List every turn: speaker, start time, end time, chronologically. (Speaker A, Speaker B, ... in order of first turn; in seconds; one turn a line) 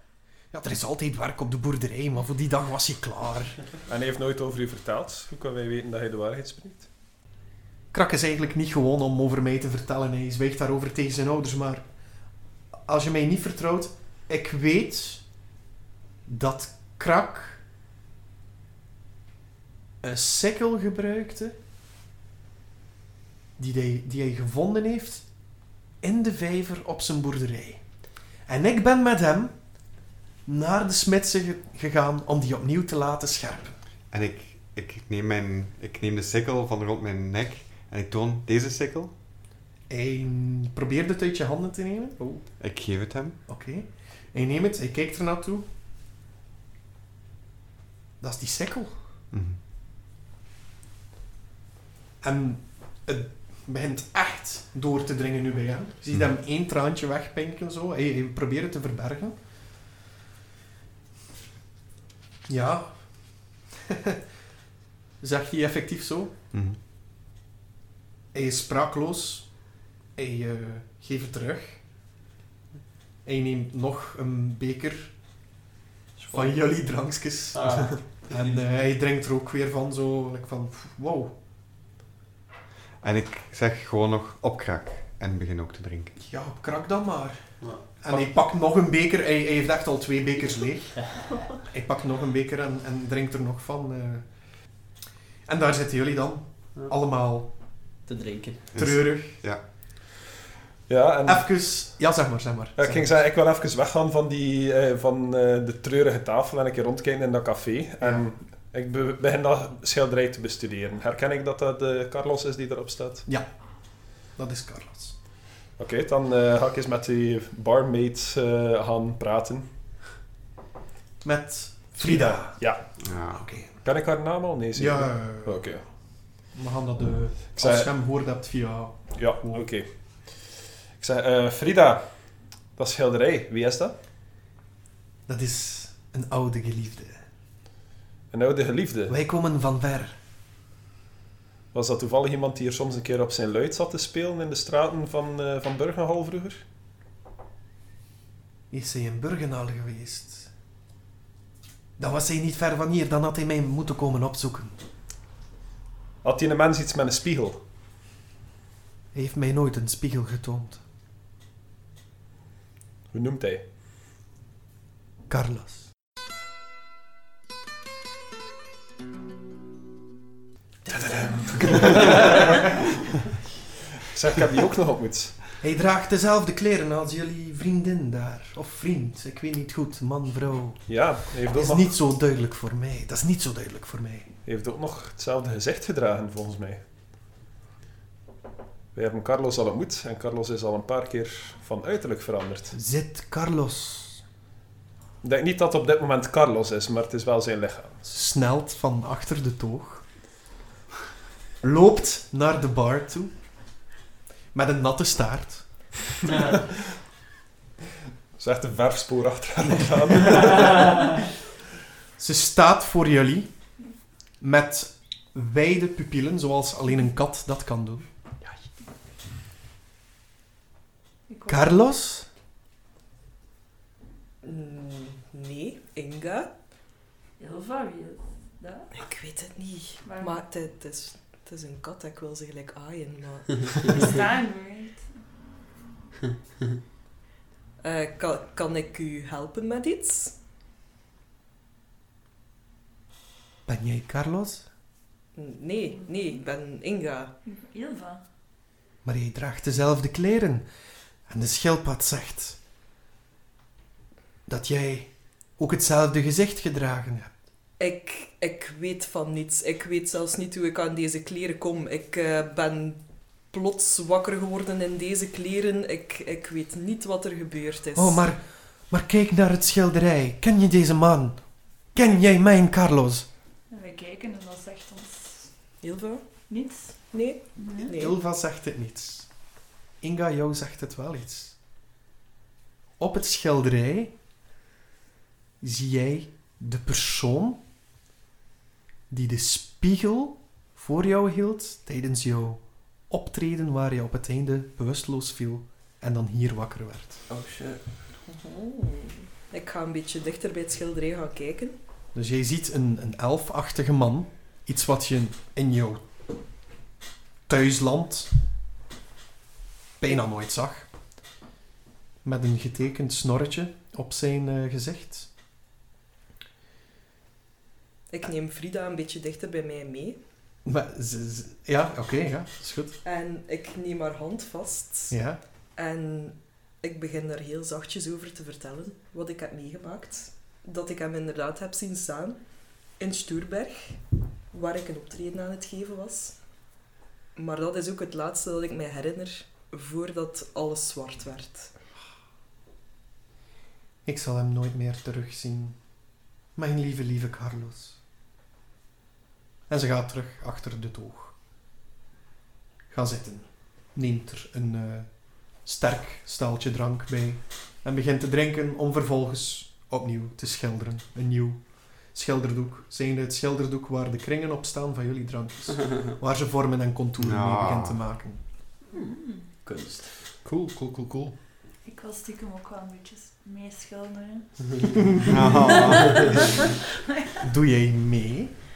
Speaker A: 0.5-3.6
Speaker B: 3.9-6.9
Speaker A: 7.9-11.8
Speaker A: 12.9-15.2
Speaker A: 16.3-17.6
Speaker A: 20.0-21.6
Speaker A: 23.6-25.2
Speaker A: 26.0-27.8
Speaker A: 28.5-29.5
Speaker A: 30.5-33.8
Speaker C: 34.1-39.1
Speaker A: 39.9-42.5
Speaker C: 42.6-43.4
Speaker A: 43.5-45.7
Speaker A: 48.2-49.0
Speaker C: 49.3-49.6
Speaker A: 52.2-59.4
Speaker A: 62.5-63.1
Speaker A: 63.7-64.2
Speaker A: 65.2-66.3
Speaker C: 66.5-66.8
Speaker A: 68.3-69.5
Speaker A: 70.2-71.8
Speaker A: 73.2-75.1
Speaker D: 76.2-76.6
Speaker A: 76.3-81.3
Speaker D: 77.5-78.7
Speaker C: 83.0-86.1
Speaker A: 86.2-87.4
Speaker D: 87.6-88.3
Speaker A: 88.0-91.1
Speaker A: 91.7-94.3
Speaker A: 95.5-97.5
Speaker D: 98.1-98.7
Speaker C: 98.7-99.6
Speaker A: 98.8-99.4
Speaker B: 100.9-101.5
Speaker A: 101.3-103.1
Speaker B: 102.8-113.3
Speaker A: 108.0-108.3
Speaker A: 114.3-115.2
Speaker B: 115.8-119.7
Speaker A: 121.2-122.6
Speaker B: 122.0-122.8
Speaker C: 123.0-123.4
Speaker A: 123.3-123.8
Speaker B: 123.8-125.8
Speaker A: 124.8-125.8
Speaker A: 126.5-129.6
Speaker B: 127.5-127.9
Speaker B: 129.2-132.1
Speaker B: 132.8-133.9
Speaker A: 135.3-137.2
Speaker B: 138.3-139.2
Speaker A: 139.1-140.2
Speaker B: 141.7-146.6
Speaker A: 148.7-150.5
Speaker A: 152.0-154.8
Speaker B: 156.2-157.6
Speaker A: 159.1-160.8
Speaker B: 163.1-163.6
Speaker A: 165.3-165.8
Speaker B: 170.9-172.6
Speaker D: 171.6-172.4
Speaker B: 174.1-175.4
Speaker A: 175.6-180.9
Speaker B: 180.9-182.0
Speaker A: 181.5-184.3
Speaker B: 184.5-186.8
Speaker B: 188.9-192.8
Speaker A: 192.7-194.2
Speaker B: 195.2-198.0
Speaker A: 198.1-200.1
Speaker A: 201.6-203.3
Speaker A: 204.5-205.7
Speaker B: 206.3-206.8
Speaker B: 208.4-211.2
Speaker A: 212.2-213.5
Speaker A: 214.4-218.1
Speaker E: 221.3-221.9
Speaker A: 221.5-222.3
Speaker F: 224.4-226.5
Speaker E: 227.4-228.9
Speaker F: 228.9-234.1
Speaker E: 230.0-230.5
Speaker E: 233.8-235.1
Speaker F: 237.8-240.4
Speaker A: 243.7-244.7
Speaker F: 245.3-247.3
Speaker E: 245.9-246.4
Speaker E: 247.4-248.2
Speaker A: 249.0-250.7
Speaker A: 251.3-252.6
Speaker A: 254.5-257.3
Speaker F: 257.8-268.2
Speaker A: 267.9-271.4
Speaker A: 271.9-273.3
Speaker E: 273.7-275.6
Speaker F: 275.8-276.2
Speaker E: 276.5-277.9
Speaker F: 277.1-278.2
Speaker A: 278.0-279.3
Speaker A: 280.0-281.6
Speaker A: 283.0-284.1
Speaker A: 285.6-287.6
Speaker A: 289.1-297.2
Speaker D: 297.3-297.8
Speaker F: 298.3-301.8
Speaker A: 302.1-306.0
Speaker A: 307.5-308.3
Speaker A: 310.0-310.9
Speaker A: 312.2-315.3
Speaker F: 318.1-320.2
Speaker A: 320.6-323.0
Speaker F: 323.0-325.1
Speaker A: 325.1-325.4
Speaker F: 325.8-332.4
Speaker F: 333.0-334.0
Speaker F: 334.5-336.4
Speaker F: 337.4-341.7
Speaker A: 344.1-345.8
Speaker A: 346.6-348.0
Speaker A: 349.7-351.3
Speaker A: 352.9-355.1
Speaker A: 355.6-361.6
Speaker A: 362.1-368.4
Speaker C: 367.2-368.0
Speaker E: 368.9-369.5
Speaker D: 369.6-370.1
Speaker B: 370.4-371.4
Speaker E: 371.8-374.7
Speaker C: 375.2-376.4
Speaker E: 375.5-377.5
Speaker A: 377.4-378.6